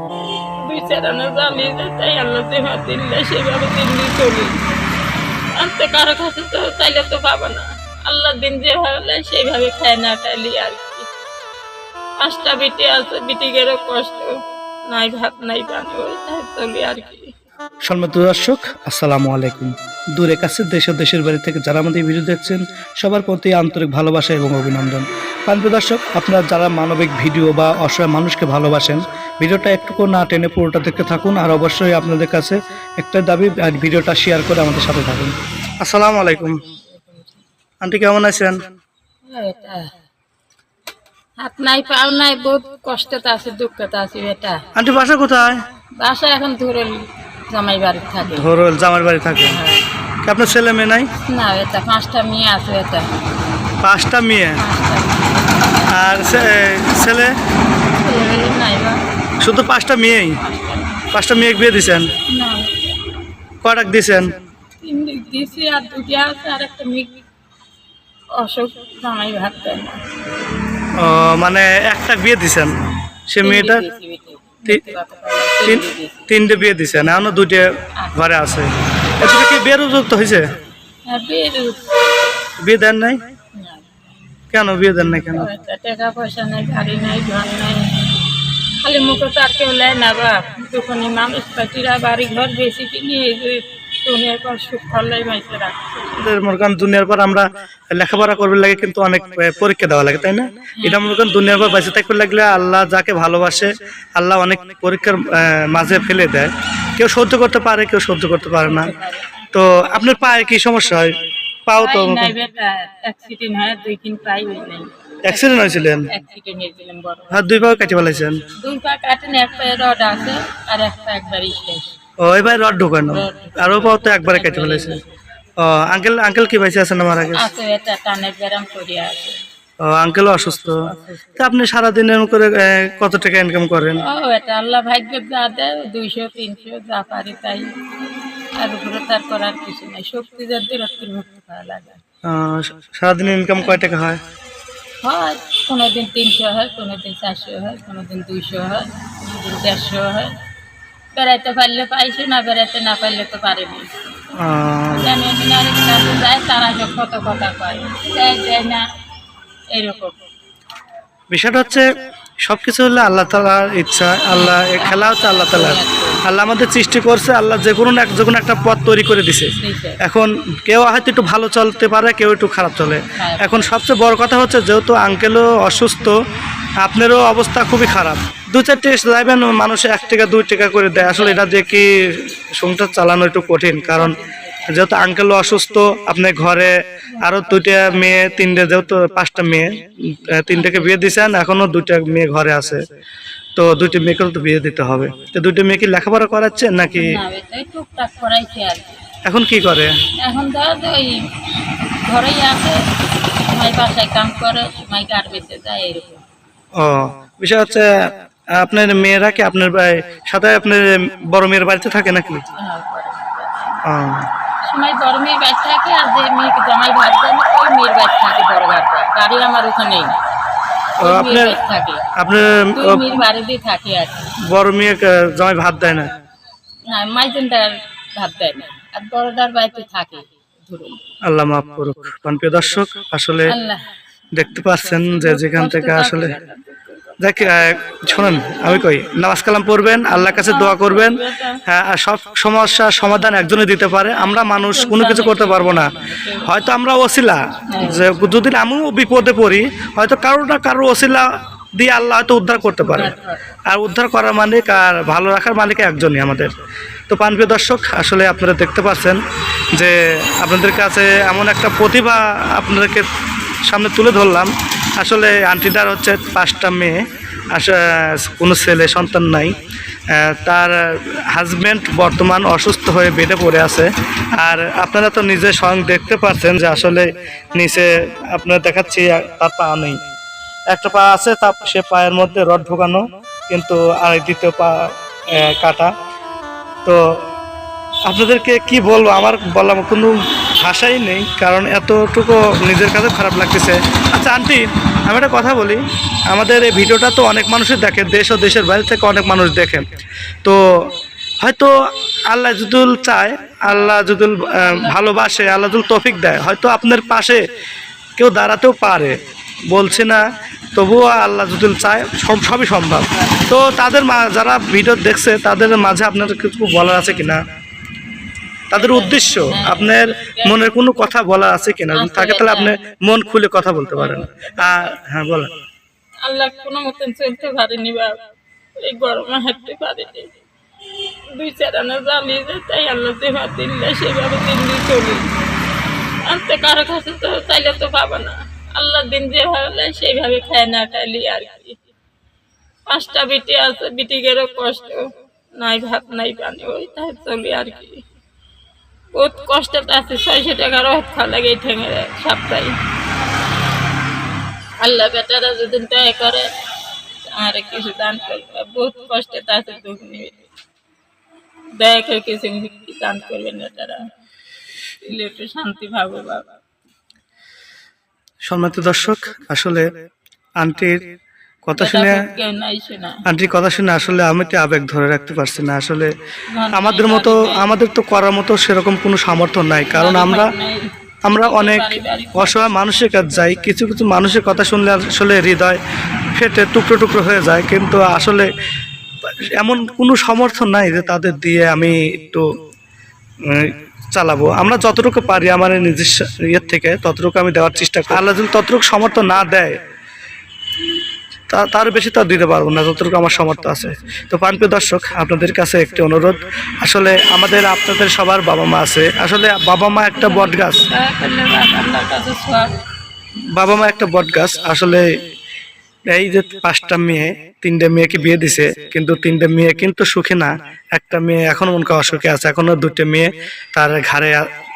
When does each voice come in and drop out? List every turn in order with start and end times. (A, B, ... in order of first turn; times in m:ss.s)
0:00.6-0:04.6 A
0:05.6-0:11.1 A
0:12.2-0:17.3 A
0:17.8-0:36.6 B
0:36.9-0:37.4 A
0:37.8-0:38.6 B
0:39.3-0:39.9 A
0:41.4-0:44.6 A
0:44.8-0:45.6 B
0:46.0-0:48.5 A
0:48.3-0:49.6 B
0:49.5-0:49.9 A
0:50.2-0:51.1 B
0:51.3-0:53.1 A
0:53.8-0:54.6 B
0:54.6-0:55.4 A
0:55.9-0:57.4 B
0:58.0-0:59.0 A
0:59.4-1:00.4 B
1:00.4-1:01.0 A
1:01.1-1:02.1 B
1:02.3-1:03.0 A
1:03.6-1:04.3 B
1:04.8-1:07.2 A
1:08.4-1:10.0 A
1:11.0-1:12.7 B
1:13.3-1:13.8 B
1:13.4-1:16.3 A
1:15.6-1:20.4 B
1:18.0-1:18.3 A
1:21.1-1:22.5 A
1:22.6-1:23.2 B
1:23.6-1:23.9 A
1:24.5-1:25.5 B
1:25.1-1:28.2 A
1:28.8-1:36.3 A
1:36.2-1:48.9 B
1:40.8-1:41.1 A
1:48.6-1:49.3 A
1:49.5-1:51.1 B
1:51.7-1:52.3 B
1:51.8-1:57.5 A
1:55.2-1:56.1 B
1:57.3-1:58.4 B
1:58.6-2:02.0 A
2:02.2-2:05.0 B
2:03.0-2:05.1 A
2:05.6-2:07.5 B
2:07.3-2:09.4 A
2:09.8-2:14.0 B
2:14.0-2:17.7 A
2:18.6-2:22.0 A
2:22.2-2:24.2 B
2:25.0-2:30.3 A
2:31.1-2:33.9 A
2:34.4-2:35.1 B
2:34.9-2:38.9 A
2:39.7-2:40.2 A
2:41.3-2:41.9 B
2:42.4-2:56.2 B
2:44.3-2:46.2 A
2:49.6-2:50.0 A
2:53.2-2:53.8 A
2:56.8-3:04.2 B
3:01.1-3:01.5 A
3:03.9-3:04.9 A
3:04.7-3:12.8 B
3:07.1-3:08.6 A
3:10.5-3:11.1 A
3:13.6-3:17.1 B
3:17.0-3:19.0 A
3:19.2-3:19.9 B
3:20.2-3:21.2 A
3:22.0-3:22.8 A
3:23.5-3:26.2 A
3:26.8-3:32.4 B
3:32.6-3:33.8 A
3:33.8-3:34.3 B
3:34.6-3:40.2 A
3:41.0-3:41.6 B
3:41.0-3:42.0 A
3:42.2-3:43.1 B
3:42.7-3:44.3 A
3:44.5-3:46.1 B
3:46.9-3:51.0 A
3:51.2-3:53.5 B
3:53.5-3:53.9 A
3:54.3-3:56.3 B
3:55.2-3:58.8 A
3:57.2-4:13.1 B
4:00.1-4:01.6 A
4:04.6-4:06.5 A
4:07.7-4:08.1 A
4:12.8-4:13.4 A
4:13.7-4:16.5 B
4:17.1-4:19.2 B
4:19.7-4:23.1 B
4:23.7-4:29.5 B
4:30.1-4:40.0 B
4:40.7-4:44.8 B
4:45.3-4:45.9 B
4:48.1-4:59.8 B
5:00.4-5:00.9 B
5:01.4-5:01.7 B
5:02.3-5:07.4 B
5:03.7-5:06.4 A
5:08.2-5:09.2 B
5:09.7-5:10.2 B
5:10.8-5:17.4 B
5:13.1-5:13.5 A
5:18.7-5:25.5 B
5:18.7-5:20.8 A
5:21.9-5:22.8 A
5:24.0-5:24.3 A
5:26.2-5:28.2 A
5:28.8-5:30.4 A
5:31.3-5:35.3 A
5:36.2-5:41.8 A
5:42.9-5:48.0 A
5:49.2-5:52.8 A
5:54.8-5:56.5 A
5:57.3-6:00.5 A
6:01.8-6:04.0 A
6:05.0-6:06.6 A
6:08.4-6:09.9 B
6:10.6-6:11.0 B
6:11.7-6:12.2 B
6:11.8-6:13.2 A
6:13.3-6:16.1 B
6:16.5-6:17.7 A
6:16.7-6:20.5 B
6:19.9-6:23.2 A
6:21.2-6:25.8 B
6:26.3-6:28.5 B
6:29.6-6:32.4 B
6:33.4-6:39.8 B
6:41.5-6:50.9 B
6:50.2-6:52.7 A
6:53.6-6:55.1 B
6:56.1-7:04.5 B